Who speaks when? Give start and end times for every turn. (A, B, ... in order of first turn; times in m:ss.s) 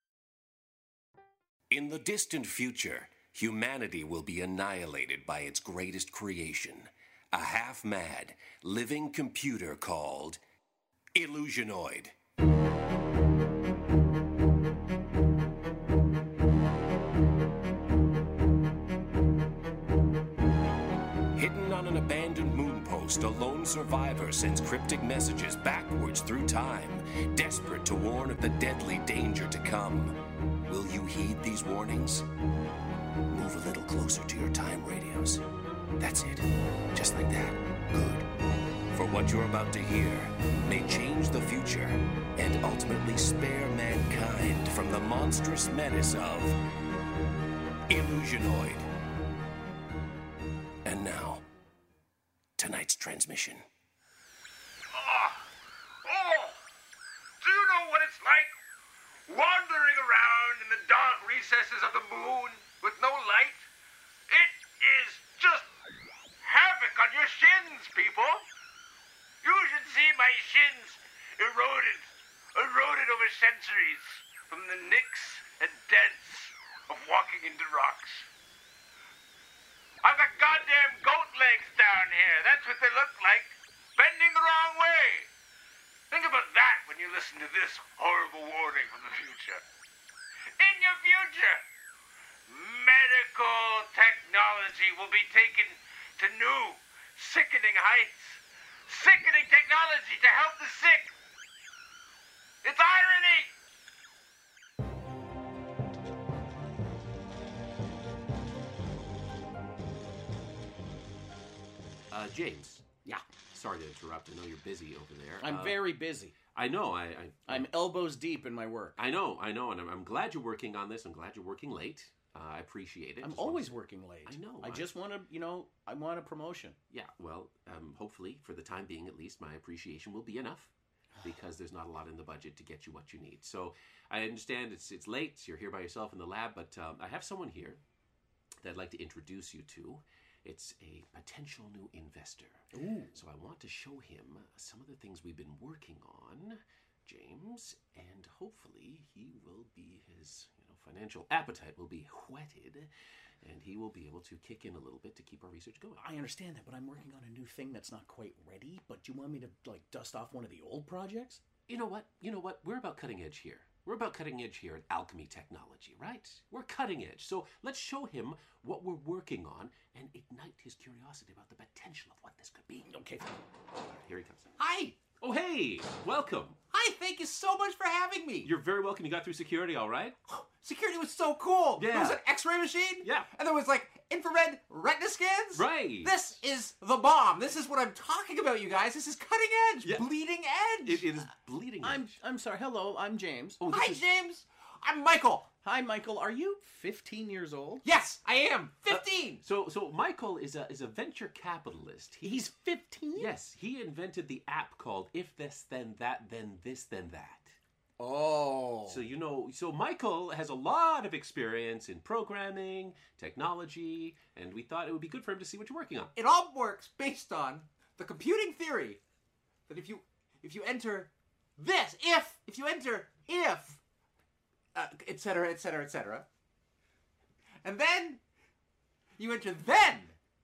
0:01.7-0:10.4 A
0:11.2-0:12.1 A
0:21.3-0:30.2 A
0:30.7-0:32.2 A
0:33.3-0:35.4 A
0:36.0-0:36.4 A
0:36.9-0:38.2 A
0:38.9-0:46.6 A
0:47.9-0:48.9 A
0:50.8-0:51.4 A
0:52.6-0:53.6 A
0:54.9-0:55.4 B
0:56.0-0:56.6 B
0:57.4-0:58.5 B
0:59.3-1:03.6 B
1:04.3-1:05.6 B
1:06.4-1:08.4 B
1:09.4-1:18.2 B
1:20.0-1:25.3 B
1:26.1-1:29.6 B
1:30.6-1:31.6 B
1:32.5-1:41.1 B
1:42.6-1:43.5 B
1:52.1-1:52.9 C
1:53.5-1:55.9 C
1:55.4-1:56.4 D
1:56.5-1:57.7 C
1:57.5-1:59.0 D
1:59.0-2:03.7 C
2:03.2-2:06.8 D
2:04.2-2:04.9 C
2:06.9-2:10.7 C
2:11.2-2:17.8 C
2:18.6-2:32.9 C
2:22.7-2:23.1 D
2:33.4-2:36.0 C
2:36.0-2:41.4 D
2:41.7-2:52.9 C
2:52.8-2:53.3 D
2:53.8-2:54.5 C
2:54.6-2:55.0 E
2:55.2-2:56.6 C
2:56.7-2:58.5 E
2:58.4-3:00.2 C
3:00.3-3:11.1 E
3:01.8-3:02.2 C
3:03.0-3:03.3 C
3:05.5-3:06.1 C
3:10.8-3:12.1 C
3:11.8-3:13.6 D
3:13.6-3:14.0 C
3:13.7-3:15.5 E
3:15.6-3:17.8 D
3:17.8-3:19.4 E
3:18.9-3:22.4 C
3:22.2-3:23.3 D
3:23.1-3:27.5 C
3:28.0-3:29.0 D
3:28.9-3:36.1 C
3:36.1-3:39.0 E
3:39.7-3:43.8 E
3:44.7-3:46.2 E
3:47.6-3:48.2 E
3:49.2-3:50.2 E